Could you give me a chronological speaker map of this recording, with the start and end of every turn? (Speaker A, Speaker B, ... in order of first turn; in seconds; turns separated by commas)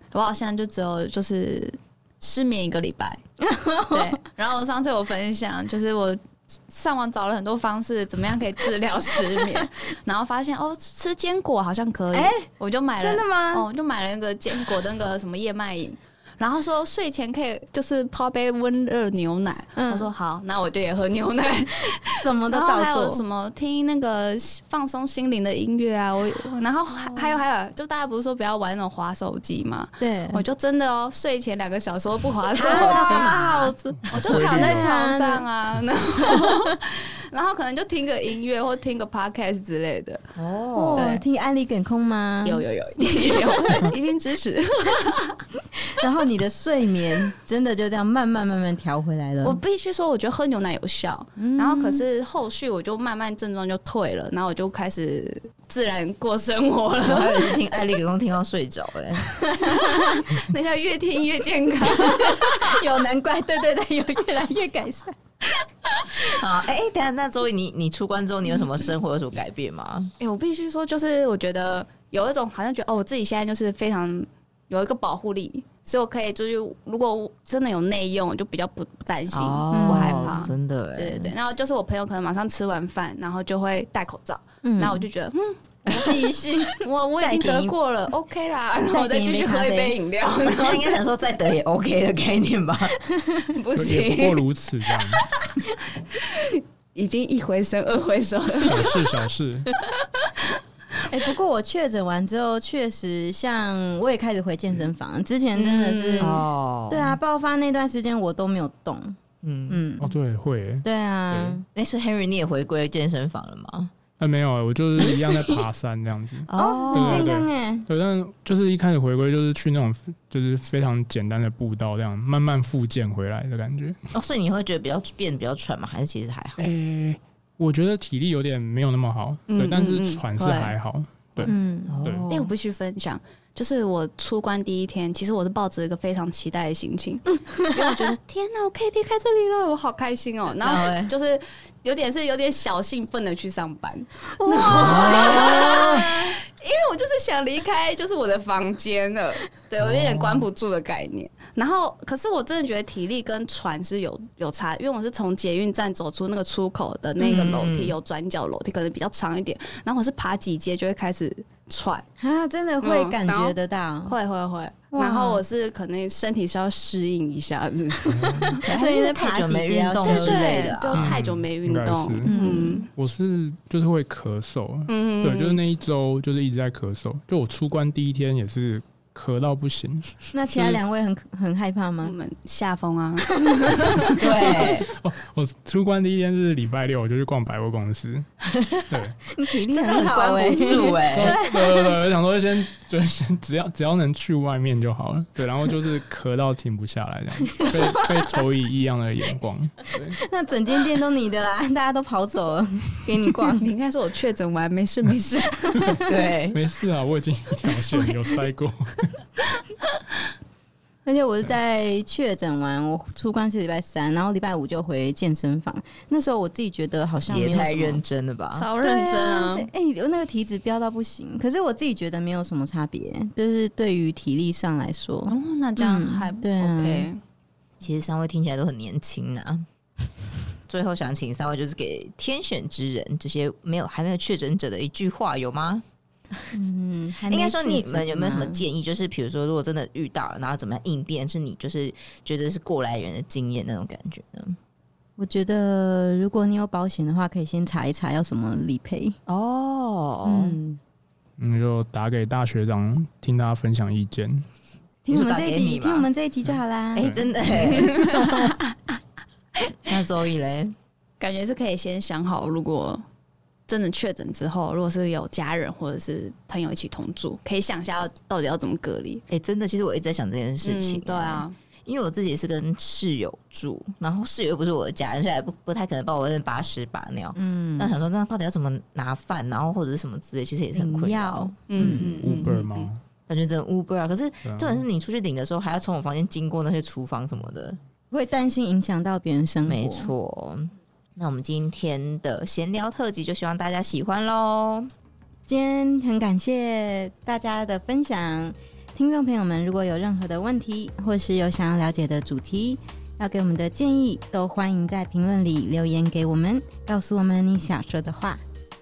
Speaker A: 0.1-3.2, Speaker B: 3.4-4.2, Speaker A: 3.9-33.4, Speaker B: 12.1-12.5, Speaker B: 13.0-13.7, Speaker B: 19.8-20.1, Speaker B: 22.0-23.2, Speaker B: 26.9-27.4, Speaker B: 30.0-30.4, Speaker B: 32.5-35.4, Speaker C: 32.6-33.7, Speaker D: 34.0-34.9, Speaker A: 34.1-40.2, Speaker B: 36.3-36.7, Speaker C: 40.4-41.1, Speaker B: 40.7-43.8, Speaker A: 40.9-41.2, Speaker A: 42.4-45.4, Speaker B: 45.8-49.6, Speaker A: 49.4-57.6, Speaker B: 51.4-52.0, Speaker C: 57.0-59.2, Speaker B: 59.5-60.0, Speaker A: 59.6-62.7, Speaker B: 61.9-65.1, Speaker C: 66.2-70.1, Speaker A: 70.2-86.2, Speaker C: 79.3-81.3, Speaker B: 79.7-80.4, Speaker B: 84.6-85.0, Speaker C: 85.8-86.1, Speaker B: 85.9-87.8, Speaker A: 86.8-91.0, Speaker B: 88.9-90.0, Speaker C: 90.4-93.0, Speaker B: 93.2-93.5, Speaker A: 93.5-94.4, Speaker D: 93.8-95.2, Speaker A: 96.1-99.0, Speaker D: 98.6-99.7, Speaker B: 101.1-109.2, Speaker C: 105.6-107.2, Speaker A: 105.7-106.4, Speaker C: 109.4-109.8, Speaker B: 109.7-110.1, Speaker D: 110.0-111.6, Speaker B: 110.8-111.6, Speaker C: 111.7-113.9, Speaker D: 114.2-124.0, Speaker B: 115.0-115.5, Speaker C: 116.5-117.3, Speaker B: 116.5-117.8, Speaker C: 124.1-126.6, Speaker D: 126.6-131.5, Speaker A: 129.5-130.7, Speaker C: 131.4-132.5, Speaker B: 131.4-132.0, Speaker A: 132.3-162.0, Speaker B: 137.3-138.0, Speaker C: 140.6-141.1, Speaker B: 144.3-146.3, Speaker C: 144.9-145.8, Speaker C: 149.9-150.4, Speaker C: 157.2-157.9, Speaker B: 162.2-164.2, Speaker A: 162.8-168.6, Speaker B: 164.9-165.4, Speaker D: 168.1-168.6, Speaker C: 168.6-171.2, Speaker B: 168.7-170.7, Speaker A: 170.0-172.9, Speaker D: 170.9-172.3, Speaker B: 172.2-172.8, Speaker D: 172.9-180.8, Speaker A: 174.9-175.6, Speaker B: 180.3-182.1, Speaker A: 182.0-184.2, Speaker B: 183.3-184.0, Speaker C: 184.2-184.9, Speaker D: 184.4-188.3, Speaker C: 188.5-188.8, Speaker D: 188.9-189.2, Speaker B: 189.3-191.9, Speaker C: 189.7-191.4, Speaker D: 190.8-200.2, Speaker B: 197.6-197.8, Speaker B: 200.1-203.7, Speaker A: 203.6-206.0, Speaker D: 205.7-209.2, Speaker C: 206.1-206.6, Speaker A: 207.9-208.3, Speaker B: 211.1-218.0, Speaker C: 217.3-218.7, Speaker A: 218.5-219.7, Speaker B: 218.8-227.1, Speaker A: 225.3-227.2, Speaker C: 227.8-229.7, Speaker C: 230.7-235.8, Speaker B: 236.5-238.6, Speaker C: 237.3-244.6, Speaker B: 245.2-249.2, Speaker C: 249.3-250.6, Speaker B: 250.2-250.8, Speaker D: 251.4-254.4, Speaker B: 255.1-258.1, Speaker C: 255.1-256.1, Speaker C: 256.9-258.4, Speaker D: 257.0-257.2, Speaker A: 257.6-259.0, Speaker C: 259.9-260.7, Speaker A: 261.2-263.0, Speaker A: 263.7-269.2, Speaker C: 269.3-282.1, Speaker A: 270.6-271.5, Speaker B: 277.3-277.9, Speaker B: 280.7-282.1, Speaker A: 281.7-282.9, Speaker D: 281.8-283.0, Speaker C: 283.3-287.8, Speaker D: 284.4-284.8, Speaker B: 288.1-290.1, Speaker C: 289.7-294.9, Speaker B: 295.5-308.4